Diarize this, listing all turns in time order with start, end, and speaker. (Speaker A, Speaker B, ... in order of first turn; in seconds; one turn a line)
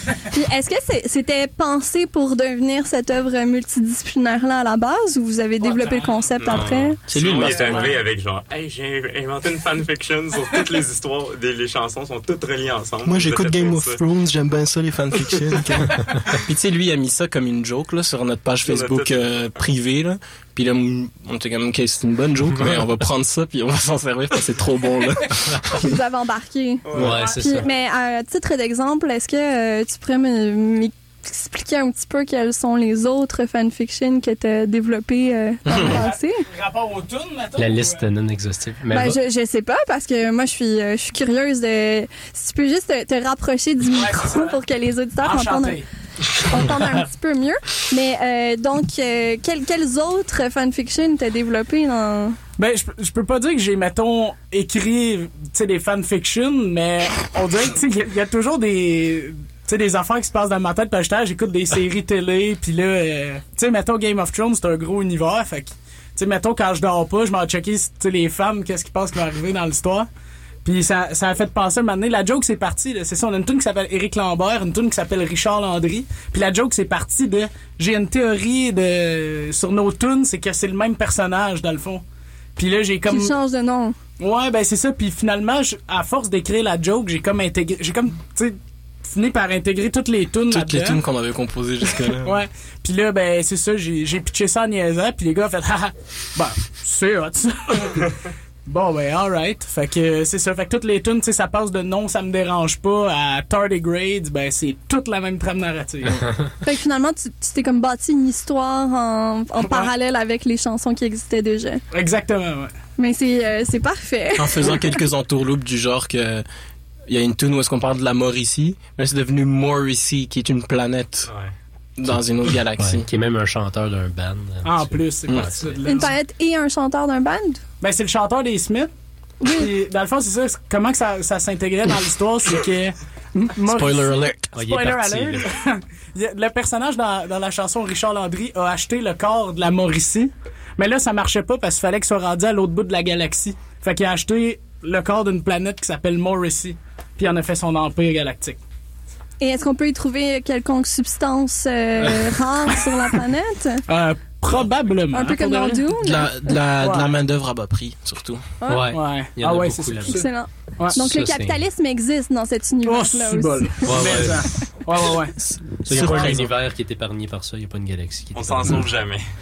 Speaker A: 0.3-7.0
Speaker B: 5.6-6.3
Speaker C: 6.4-14.0
Speaker D: 7.1-8.0
Speaker D: 13.1-25.8
Speaker C: 18.6-19.2
Speaker A: 25.8-36.5
Speaker C: 26.9-27.2
Speaker E: 26.9-27.7
Speaker D: 35.7-36.0
Speaker B: 35.8-38.1
Speaker E: 37.6-39.2
Speaker A: 38.9-45.8
Speaker B: 43.9-44.5
Speaker B: 45.2-45.9
Speaker A: 46.5-52.4
Speaker B: 52.6-70.1
Speaker B: 70.6-82.0
Speaker B: 82.6-83.3
Speaker A: 83.1-84.0
Speaker B: 84.2-88.6
Speaker B: 89.1-91.0
Speaker D: 90.5-92.4
Speaker B: 92.2-98.1
Speaker B: 98.7-106.2
Speaker A: 106.6-111.8
Speaker B: 109.6-109.9
Speaker B: 111.9-112.7
Speaker A: 113.0-114.9
Speaker D: 114.4-116.5
Speaker D: 117.1-121.3
Speaker D: 122.0-123.1
Speaker E: 122.8-125.8
Speaker B: 124.6-126.2
Speaker D: 125.3-125.5
Speaker A: 125.9-127.6
Speaker B: 127.8-128.9
Speaker A: 129.4-129.7
Speaker B: 129.5-148.6
Speaker D: 133.7-134.6
Speaker E: 134.5-135.5
Speaker A: 149.4-153.8
Speaker B: 153.9-155.9
Speaker A: 155.1-156.6
Speaker D: 156.0-158.4
Speaker B: 156.7-157.1
Speaker A: 158.6-158.9
Speaker E: 158.7-160.2
Speaker B: 158.9-160.3
Speaker A: 160.1-164.3
Speaker E: 160.9-161.6
Speaker B: 162.8-165.3
Speaker E: 163.9-164.5
Speaker E: 165.8-168.9
Speaker D: 165.9-166.6
Speaker C: 168.3-169.3